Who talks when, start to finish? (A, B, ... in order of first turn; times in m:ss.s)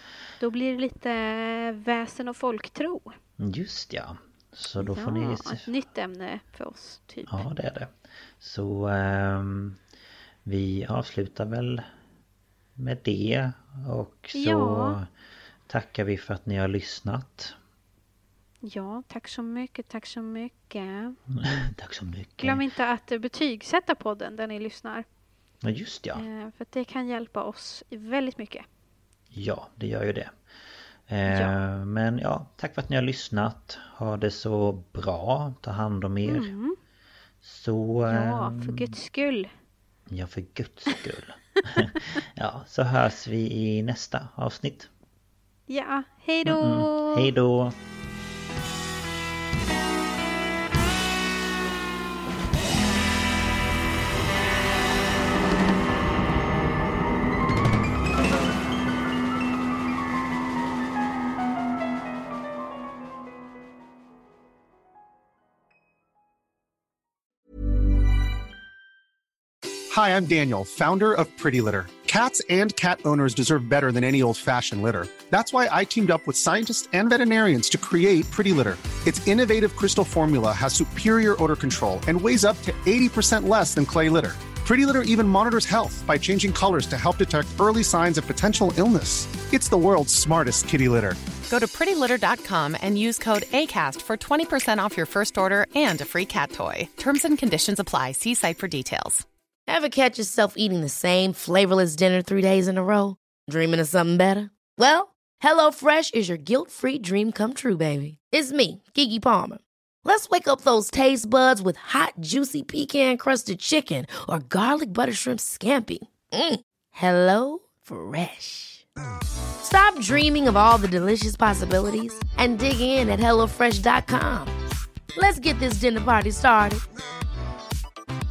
0:00.4-0:03.2 A
0:03.4-0:05.7 B
0:04.8-0:07.4 A
0:07.2-0:09.8 B
0:10.4-0:11.8 B
0:12.8-0:15.1 B
0:14.3-0:15.0 A
0:15.7-0:17.6 B
0:18.6-0:21.2 A
0:21.3-0:22.6 B
0:22.4-0:25.0 A
0:25.6-0:26.2 B
0:26.1-0:28.6 A
0:29.3-0:30.3 B
0:31.1-0:36.5 B
0:31.3-0:31.5 A
0:36.2-0:36.8 A
0:37.4-0:38.9 B
0:38.0-0:39.5 A
0:40.1-0:44.9 B
0:45.7-0:47.3 A
0:46.4-0:47.8 B
1:09.9-1:31.2 C
1:31.5-1:39.2 D
1:39.7-1:58.8 E
1:59.6-2:04.5 E
2:05.1-2:06.8 E